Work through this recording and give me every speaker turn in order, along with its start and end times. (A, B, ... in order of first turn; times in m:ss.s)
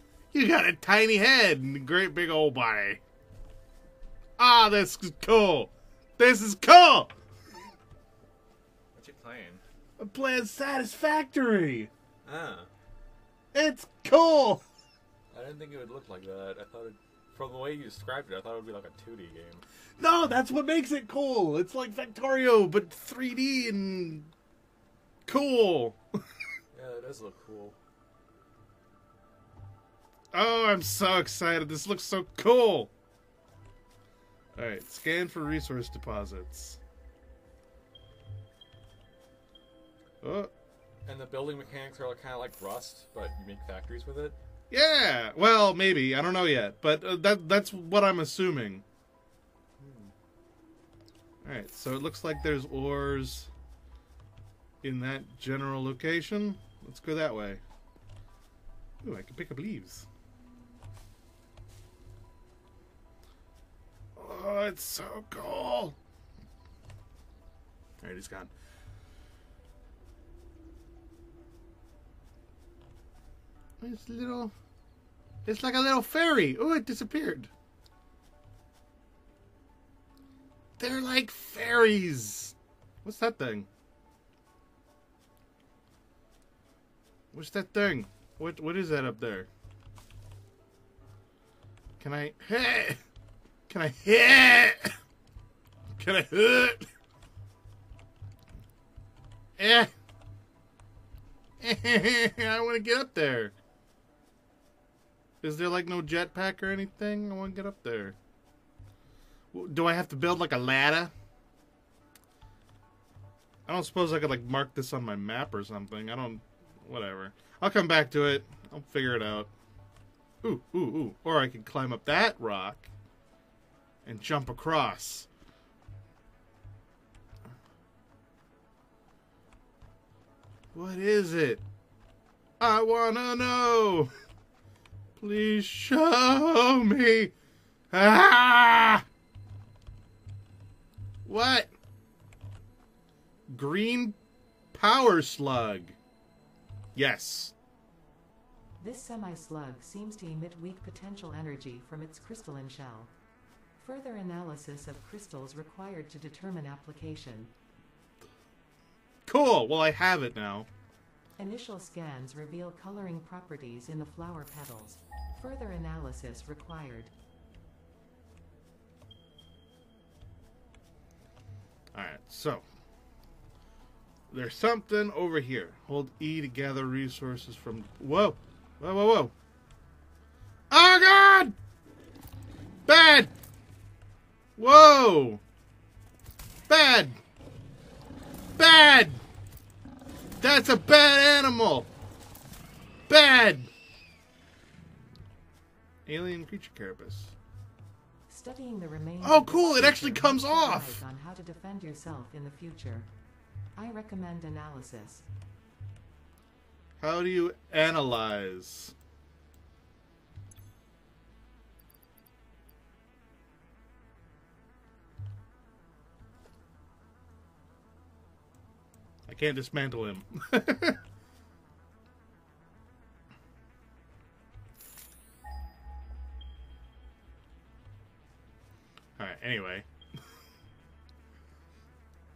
0:00.3-0:03.0 A
0:04.4-0:07.1 A
0:09.0-0:09.6 B
0:10.0-0:11.9 A
0:12.2-0:12.7 B
0:13.5-0:14.6 A
0:15.3-0:19.6 B
0:20.0-0:24.3 A
0:25.3-0:26.0 A
0:26.7-0:27.8 B
0:30.3-0:32.9 A
0:34.6-0:36.8 A
0:40.2-0:40.5 A
0:41.1-0:44.4 B
0:44.7-0:48.8 A
0:49.8-0:50.1 B
0:51.4-0:53.5 A
0:54.8-0:57.6 A
0:59.0-1:00.1 A
1:04.2-1:06.0 A
1:08.0-1:08.5 A
1:13.8-1:14.5 A
1:15.4-1:17.5 A
1:20.8-1:23.7 A
1:27.3-1:29.5 A
1:32.0-1:33.0 A
1:33.7-1:34.9 A
1:36.0-1:36.9 A
1:39.6-1:39.9 A
1:41.6-1:43.5 A
1:45.4-1:48.2 A
1:49.5-1:51.1 A
1:53.7-1:59.5 A
2:00.4-2:02.9 A
2:04.0-2:05.3 A
2:10.7-2:11.6 A
2:12.6-2:14.1 A
2:15.2-2:17.3 A
2:17.9-2:19.0 A
2:21.2-2:21.7 A
2:23.5-2:24.2 A
2:24.7-2:26.0 A
2:27.0-2:27.6 A
2:28.8-2:33.1 C
2:33.8-2:37.5 C
2:39.3-2:40.7 A
2:41.4-2:47.1 C
2:51.9-2:52.6 A
2:54.3-2:59.3 A
3:00.7-3:01.6 A
3:02.9-3:03.3 A
3:04.6-3:05.4 A
3:06.7-3:07.2 A
3:08.6-3:09.2 A
3:10.4-3:11.9 A
3:13.1-3:13.7 A
3:16.1-3:17.4 A
3:18.3-3:23.1 C
3:19.2-3:21.0 A
3:23.8-3:25.3 C
3:27.0-3:28.9 A
3:39.3-3:41.0 A
3:49.2-3:49.9 A